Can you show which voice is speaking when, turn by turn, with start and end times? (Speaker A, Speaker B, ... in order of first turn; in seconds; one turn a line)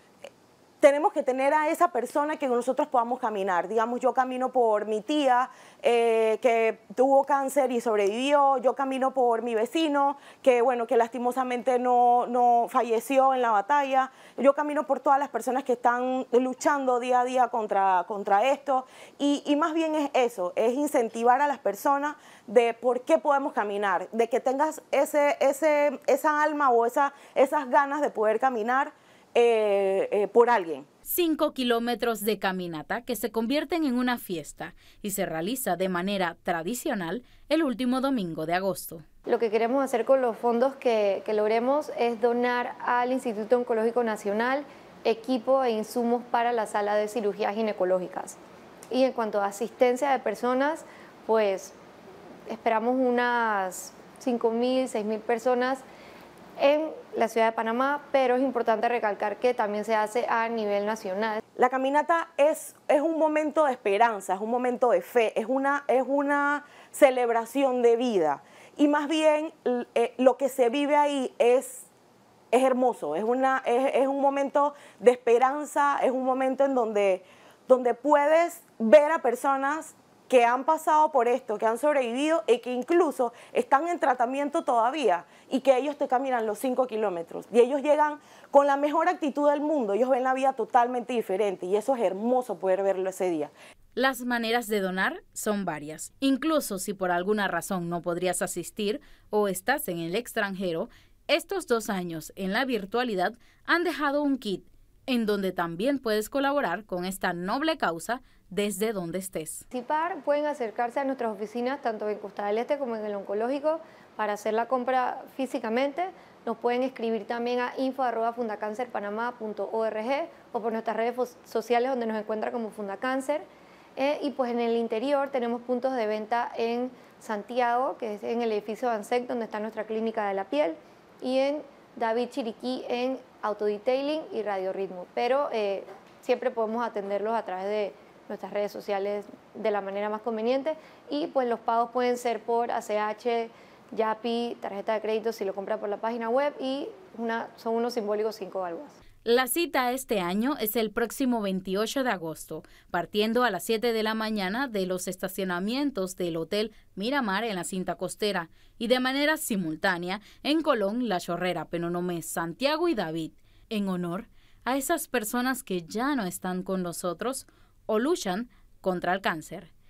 Speaker A: 0.8-30.9
Speaker B: 31.1-39.0
Speaker C: 39.3-48.4
Speaker C: 48.9-51.7
Speaker C: 52.5-55.8
Speaker C: 56.6-61.4
Speaker A: 61.5-71.8
Speaker A: 72.5-93.5
Speaker B: 94.0-109.6
Speaker C: 109.7-149.0
Speaker B: 149.2-169.7